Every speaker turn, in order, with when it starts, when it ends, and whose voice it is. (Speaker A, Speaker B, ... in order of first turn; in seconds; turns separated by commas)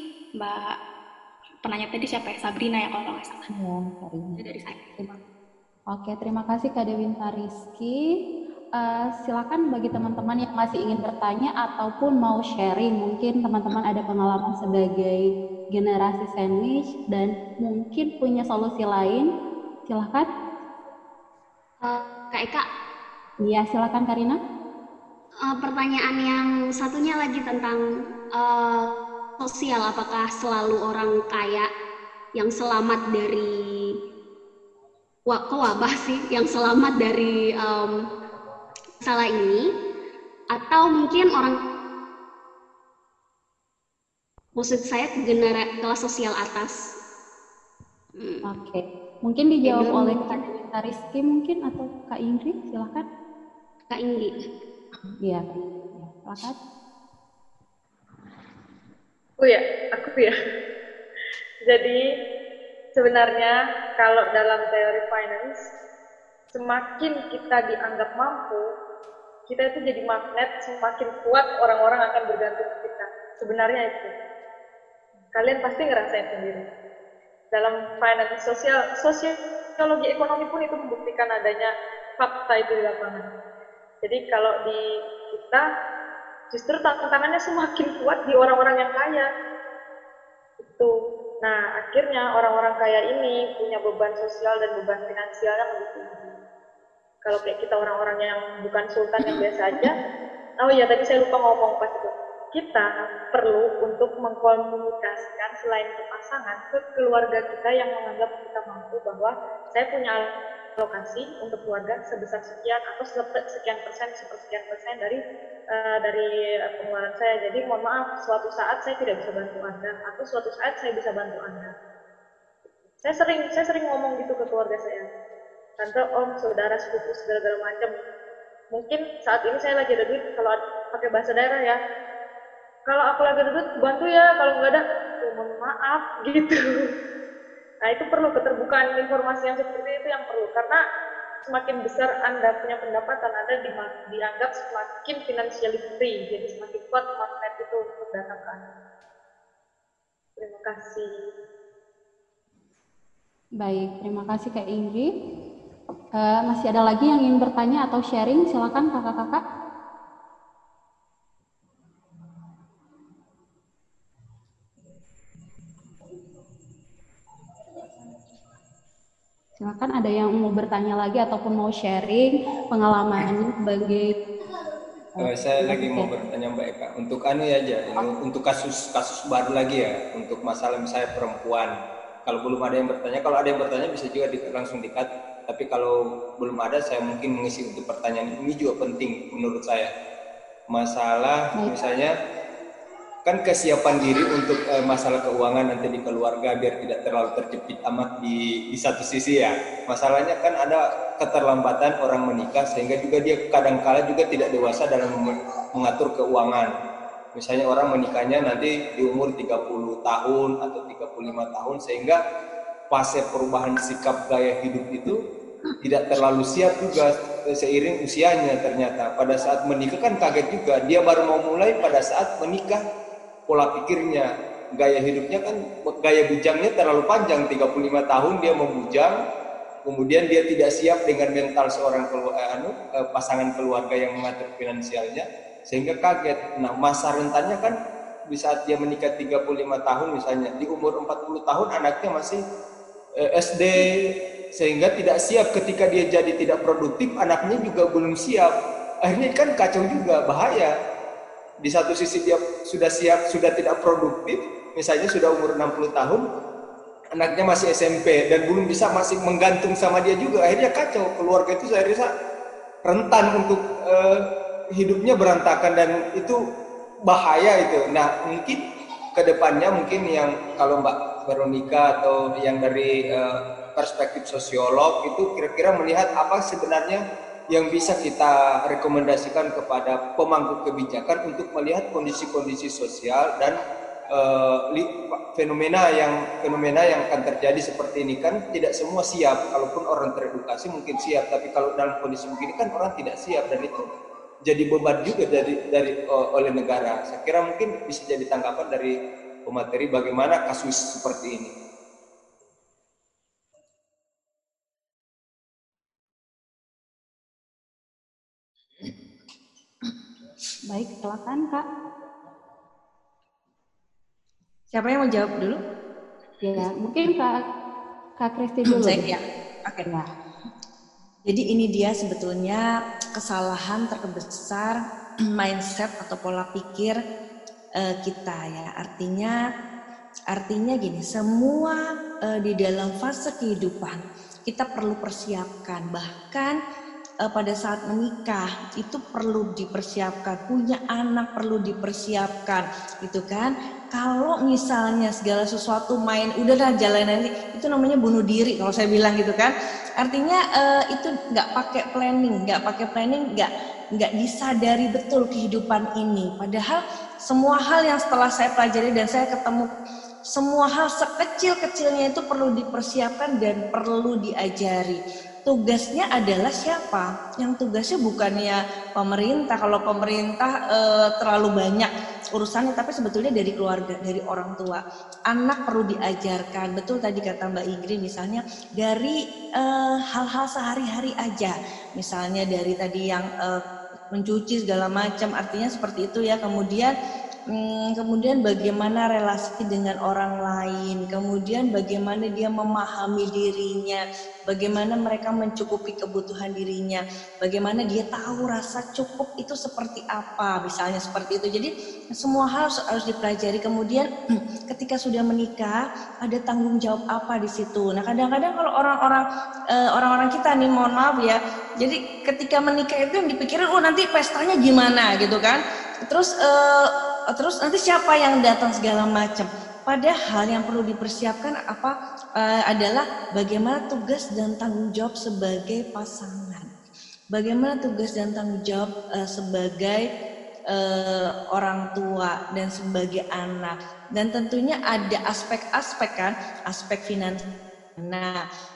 Speaker A: 0.4-0.8, Speaker A: 1.6-3.5, Speaker B: 3.5-4.4, Speaker A: 4.4-5.0, Speaker B: 5.9-8.2, Speaker B: 8.8-19.3, Speaker B: 19.9-20.3, Speaker C: 21.8-22.7, Speaker B: 23.4-24.4, Speaker C: 25.4-27.8, Speaker C: 28.3-31.7, Speaker C: 32.4-34.0, Speaker C: 35.3-38.1, Speaker C: 39.0-39.7, Speaker C: 40.5-41.6, Speaker C: 44.6-46.9, Speaker C: 48.2-48.5, Speaker B: 48.5-53.0, Speaker C: 49.6-50.5, Speaker C: 53.9-54.4, Speaker B: 55.2-56.6, Speaker D: 59.4-60.4, Speaker D: 61.6-62.0, Speaker D: 63.0-65.7, Speaker D: 66.5-68.7, Speaker D: 69.5-74.1, Speaker D: 75.3-76.6, Speaker D: 77.5-83.3, Speaker D: 84.0-85.7, Speaker D: 86.5-89.3, Speaker D: 90.6-96.3, Speaker D: 97.2-100.0, Speaker D: 100.6-121.8, Speaker D: 123.0-125.1, Speaker D: 125.8-128.0, Speaker D: 128.7-131.8, Speaker D: 132.9-136.9, Speaker D: 137.8-140.8, Speaker D: 141.4-148.7, Speaker D: 150.4-151.3, Speaker B: 153.6-155.1, Speaker B: 156.2-159.4, Speaker B: 169.6-174.2, Speaker B: 175.2-176.1, Speaker E: 175.2-189.9, Speaker E: 190.7-192.2, Speaker E: 193.2-206.7, Speaker E: 207.3-212.2, Speaker E: 212.9-215.2, Speaker E: 215.8-222.8, Speaker E: 223.5-229.2, Speaker E: 229.8-242.4, Speaker E: 243.2-250.7, Speaker E: 251.6-256.3, Speaker E: 257.1-262.1, Speaker E: 262.9-266.4, Speaker E: 267.1-283.6, Speaker E: 284.1-293.9, Speaker E: 294.4-301.5, Speaker B: 310.7-311.7, Speaker F: 314.7-315.6, Speaker B: 316.4-317.4, Speaker B: 318.2-319.1, Speaker F: 318.7-319.9, Speaker F: 321.3-324.8, Speaker F: 325.4-327.0, Speaker F: 327.8-329.4, Speaker F: 330.3-336.6, Speaker F: 337.2-359.7, Speaker F: 360.3-383.6, Speaker F: 384.1-386.9, Speaker F: 387.5-404.1, Speaker F: 404.7-426.7, Speaker F: 427.3-430.1, Speaker F: 430.7-437.4, Speaker F: 438.0-438.4